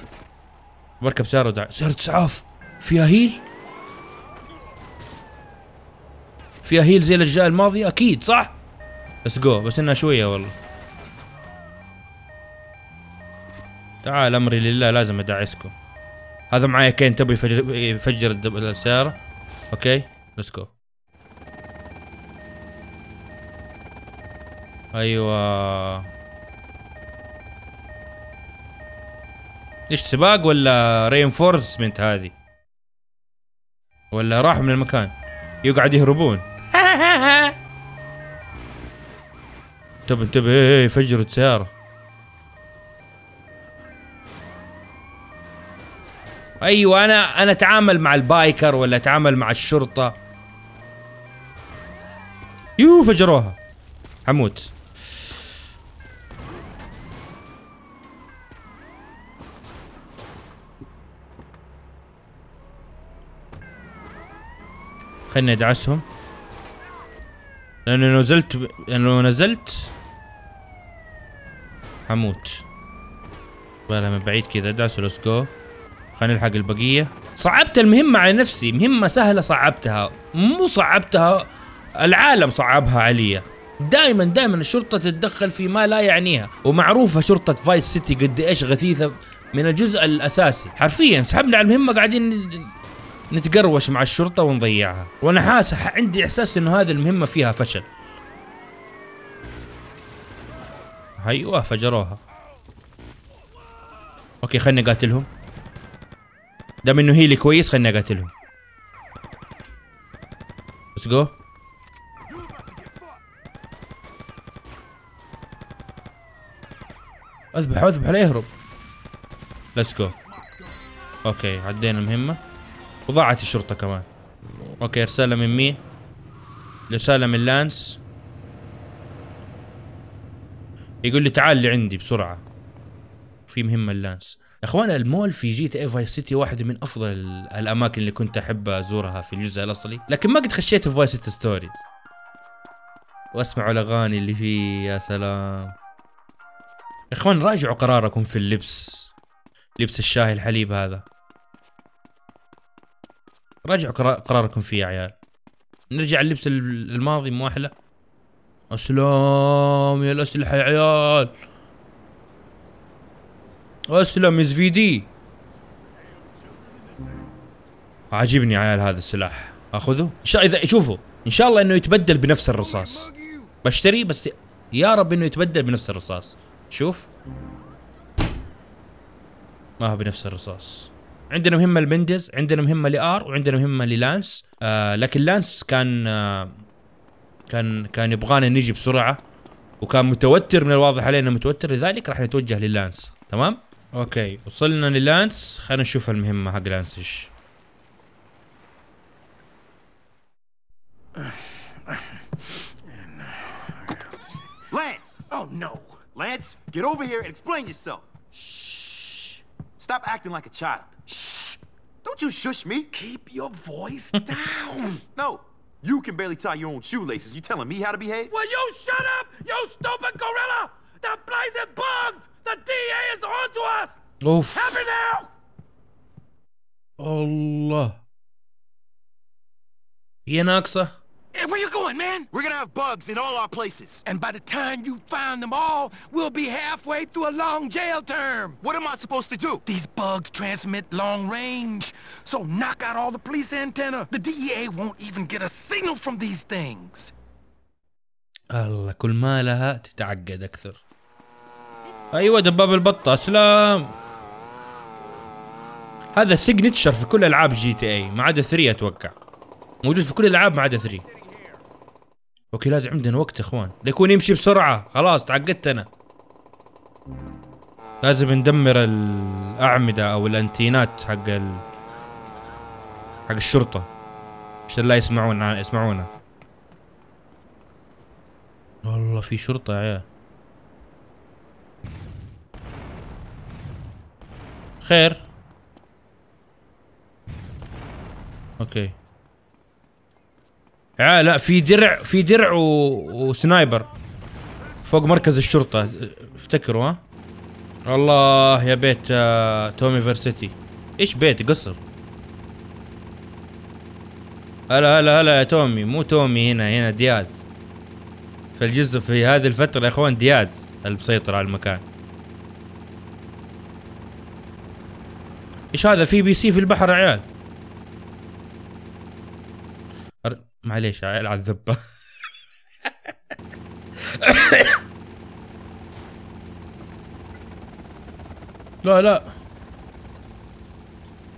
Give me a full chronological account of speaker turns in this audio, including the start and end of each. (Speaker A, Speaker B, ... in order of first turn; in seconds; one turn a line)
Speaker A: 1.0-3.4
Speaker A: 6.6-8.6
Speaker A: 9.2-10.5
Speaker A: 14.0-15.7
Speaker A: 16.5-19.1
Speaker A: 19.7-20.7
Speaker A: 24.9-26.1
Speaker A: 29.9-32.3
Speaker A: 34.1-37.5
Speaker A: 40.1-41.7
Speaker A: 46.6-50.2
Speaker A: 52.8-53.6
Speaker A: 54.2-54.7
Speaker A: 65.3-66.0
Speaker A: 67.8-69.9
Speaker A: 72.1-72.6
Speaker A: 73.9-75.5
Speaker A: 76.2-92.7
Speaker A: 93.3-97.8
Speaker A: 101.2-102.2
Speaker A: 104.4-105.3
Speaker A: 106.8-108.3
Speaker A: 111.0-111.3
Speaker B: 112.3-113.2
Speaker A: 117.5-118.5
Speaker A: 119.8-120.1
Speaker A: 121.2-122.4
Speaker A: 123.1-124.0
Speaker A: 124.8-125.8
Speaker A: 126.9-128.0
Speaker A: 131.0-132.4
Speaker A: 133.5-141.8
Speaker A: 143.3-145.7
Speaker A: 147.1-149.1
Speaker A: 149.8-151.0
Speaker A: 153.6-155.1
Speaker A: 155.9-157.7
Speaker A: 158.7-161.3
Speaker A: 163.9-165.1
Speaker A: 168.1-173.1
Speaker B: 173.0-173.5
Speaker A: 173.6-177.1
Speaker A: 179.8-186.6
Speaker A: 187.5-189.2
Speaker A: 189.8-197.3
Speaker B: 204.7-205.2
Speaker C: 205.3-206.0
Speaker B: 206.1-209.3
Speaker B: 209.8-211.4
Speaker B: 212.0-212.9
Speaker C: 212.9-215.0
Speaker B: 215.1-218.3
Speaker C: 218.3-223.9
Speaker A: 224.2-224.9
Speaker C: 224.5-225.3
Speaker A: 227.0-228.0
Speaker A: 230.2-230.9
Speaker C: 231.3-232.3
Speaker B: 232.3-234.0
Speaker C: 234.0-238.6
Speaker B: 238.6-239.6
Speaker C: 239.7-247.1
Speaker A: 248.5-250.8
Speaker A: 252.1-253.9
Speaker A: 256.1-259.1
Speaker A: 259.8-261.0
Speaker A: 262.5-265.9
Speaker A: 268.0-271.6
Speaker A: 273.3-273.9
Speaker A: 274.7-276.1
Speaker A: 278.8-280.1
Speaker A: 284.8-285.2
Speaker A: 288.6-288.9
Speaker A: 291.0-293.9
Speaker A: 294.9-297.0
Speaker A: 297.9-301.8
Speaker A: 304.7-307.5
Speaker A: 308.6-311.8
Speaker A: 315.7-317.2
Speaker A: 320.2-321.8
Speaker A: 324.1-324.8
Speaker A: 328.8-329.3